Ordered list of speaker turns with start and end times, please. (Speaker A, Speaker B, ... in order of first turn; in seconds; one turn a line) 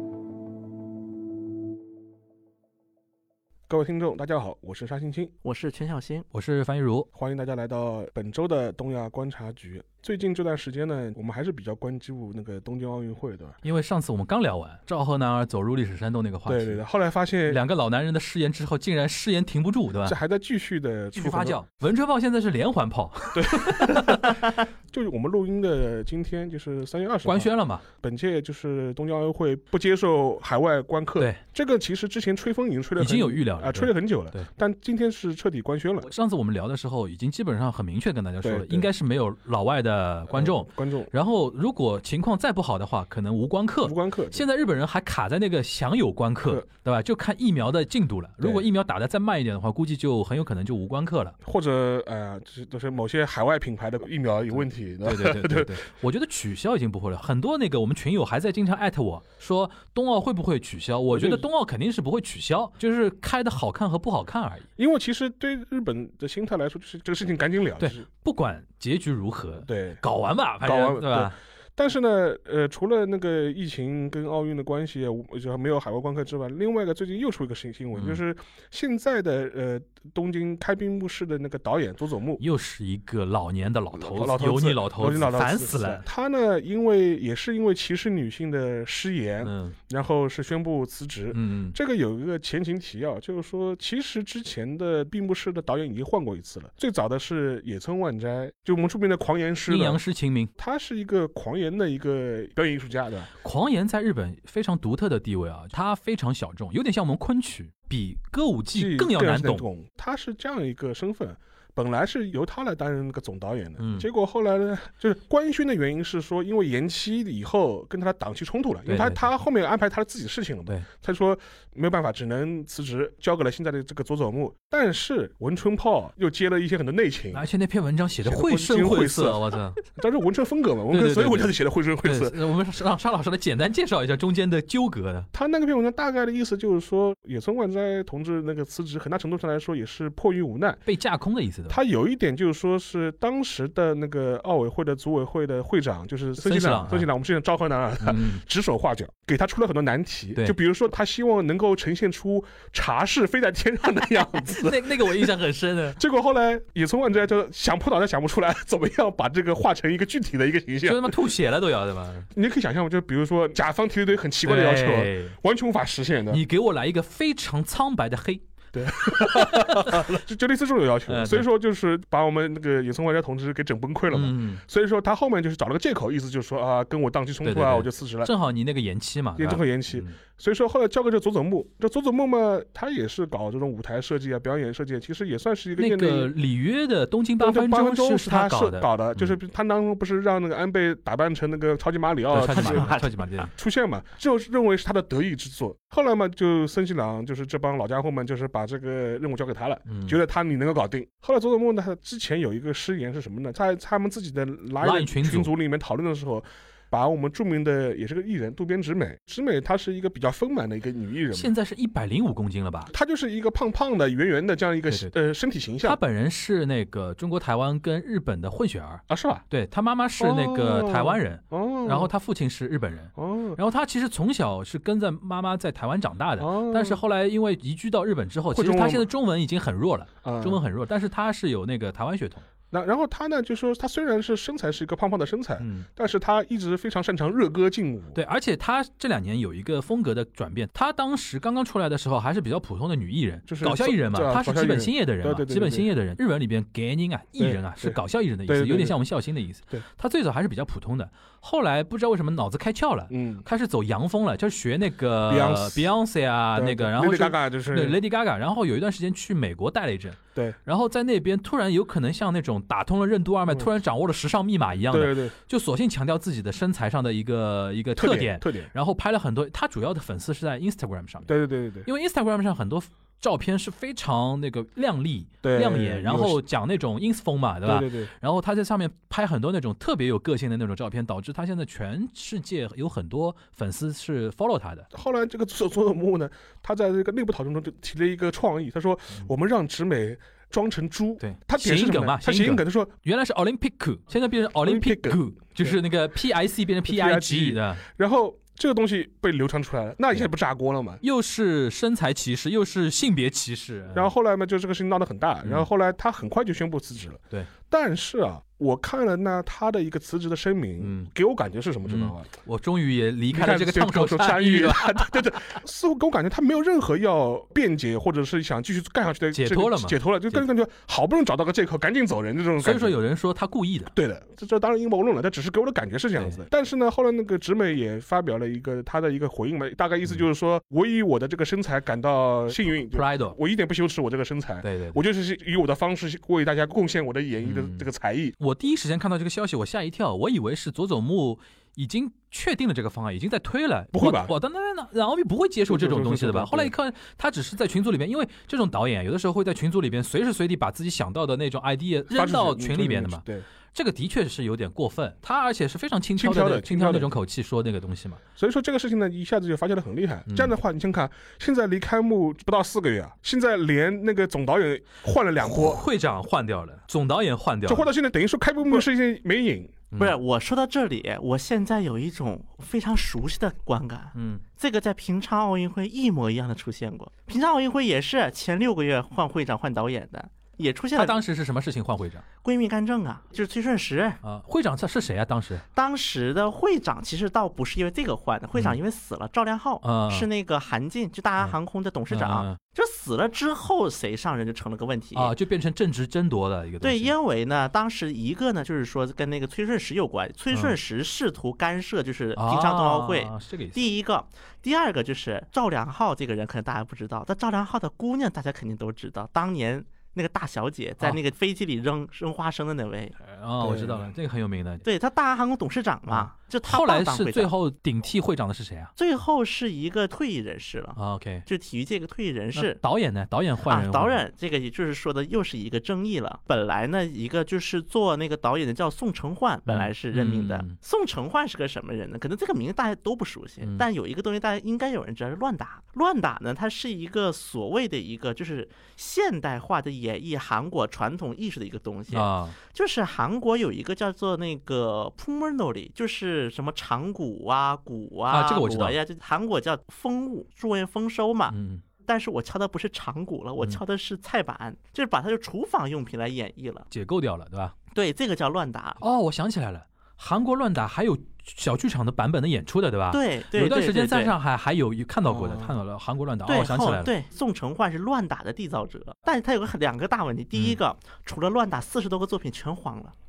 Speaker A: 3.7-5.3
Speaker B: 5.4-6.2
Speaker C: 6.3-7.1
Speaker A: 7.1-13.6
Speaker C: 13.6-16.8
Speaker A: 16.4-17.6
Speaker C: 17.5-20.2
Speaker A: 20.0-21.6
Speaker C: 21.1-24.5
Speaker A: 23.3-36.1
Speaker C: 27.2-27.8
Speaker C: 33.0-34.5
Speaker C: 36.0-51.3
Speaker A: 38.4-38.9
Speaker A: 40.3-41.1
Speaker A: 43.8-44.4
Speaker A: 51.4-55.8
Speaker C: 55.0-64.7
Speaker A: 61.1-61.4
Speaker A: 64.8-68.0
Speaker C: 67.8-71.3
Speaker A: 69.6-70.0
Speaker A: 70.6-82.4
Speaker C: 77.9-78.2
Speaker C: 82.4-86.0
Speaker A: 83.9-100.0
Speaker C: 89.4-89.7
Speaker C: 91.3-91.7
Speaker C: 99.7-100.5
Speaker A: 100.6-103.3
Speaker C: 103.4-109.6
Speaker A: 108.7-127.4
Speaker C: 113.8-114.1
Speaker C: 118.9-119.2
Speaker C: 127.3-129.8
Speaker A: 128.2-132.3
Speaker C: 130.9-135.3
Speaker A: 135.3-140.8
Speaker C: 140.8-141.8
Speaker A: 141.7-155.3
Speaker C: 146.4-147.1
Speaker C: 148.0-148.4
Speaker C: 154.5-156.0
Speaker A: 155.9-161.1
Speaker C: 160.8-162.3
Speaker A: 162.3-166.4
Speaker C: 164.4-165.3
Speaker C: 166.3-168.4
Speaker A: 168.7-178.3
Speaker C: 168.9-170.2
Speaker C: 171.1-171.5
Speaker C: 174.1-174.6
Speaker C: 177.4-180.1
Speaker A: 179.4-186.3
Speaker C: 185.8-189.3
Speaker A: 187.4-211.5
Speaker C: 192.3-193.5
Speaker B: 192.5-193.1
Speaker C: 199.9-200.2
Speaker C: 204.8-205.5
Speaker C: 211.3-212.9
Speaker A: 212.9-216.0
Speaker C: 215.8-232.4
Speaker A: 219.1-219.4
Speaker A: 220.2-222.1
Speaker A: 223.2-223.6
Speaker A: 226.4-227.0
Speaker A: 228.5-229.1
Speaker A: 230.2-230.6
Speaker A: 232.7-238.2
Speaker C: 235.6-235.9
Speaker C: 238.1-271.3
Speaker A: 243.5-245.9
Speaker A: 247.4-249.0
Speaker A: 253.1-253.4
Speaker A: 255.3-255.9
Speaker A: 256.5-258.0
Speaker A: 264.9-265.3
Speaker A: 267.9-268.7
Speaker A: 271.3-271.9
Speaker C: 271.9-284.9
Speaker A: 275.4-276.4
Speaker A: 277.6-278.1
Speaker A: 284.9-292.9
Speaker C: 291.2-297.8
Speaker A: 294.6-295.8
Speaker A: 296.8-301.0
Speaker C: 301.0-304.1
Speaker A: 303.9-312.3
Speaker C: 310.8-311.1
Speaker C: 311.9-315.6
Speaker A: 313.3-323.0
Speaker C: 319.3-320.4
Speaker C: 322.6-323.9
Speaker A: 323.9-338.3
Speaker C: 332.9-333.4
Speaker C: 334.6-335.0
Speaker C: 337.4-337.9
Speaker C: 338.4-358.2
Speaker A: 343.9-344.3
Speaker A: 345.7-346.7
Speaker A: 352.1-353.4
Speaker A: 356.2-357.1
Speaker A: 358.4-365.8
Speaker C: 360.3-360.5
Speaker C: 365.5-367.9
Speaker A: 367.6-369.8
Speaker C: 369.9-370.2
Speaker B: 370.0-381.2
Speaker C: 374.1-374.4
Speaker C: 380.9-382.2
Speaker B: 382.4-384.2
Speaker C: 384.2-385.6
Speaker B: 385.7-395.3
Speaker C: 389.8-390.3
Speaker C: 392.1-392.6
Speaker C: 395.1-397.1
Speaker B: 396.8-413.1
Speaker C: 402.4-403.8
Speaker C: 413.2-414.8
Speaker A: 413.6-414.1
Speaker B: 414.8-417.5
Speaker C: 416.1-418.9
Speaker B: 419.0-422.8
Speaker C: 420.9-421.4
Speaker C: 422.5-424.2
Speaker B: 423.7-456.9
Speaker C: 429.6-430.8
Speaker C: 433.6-433.9
Speaker C: 442.1-442.6
Speaker C: 448.3-448.9
Speaker C: 451.5-451.8
Speaker C: 456.9-457.7
Speaker B: 457.9-459.0
Speaker C: 459.0-467.1
Speaker B: 463.1-464.3
Speaker A: 465.2-465.7
Speaker B: 466.5-473.1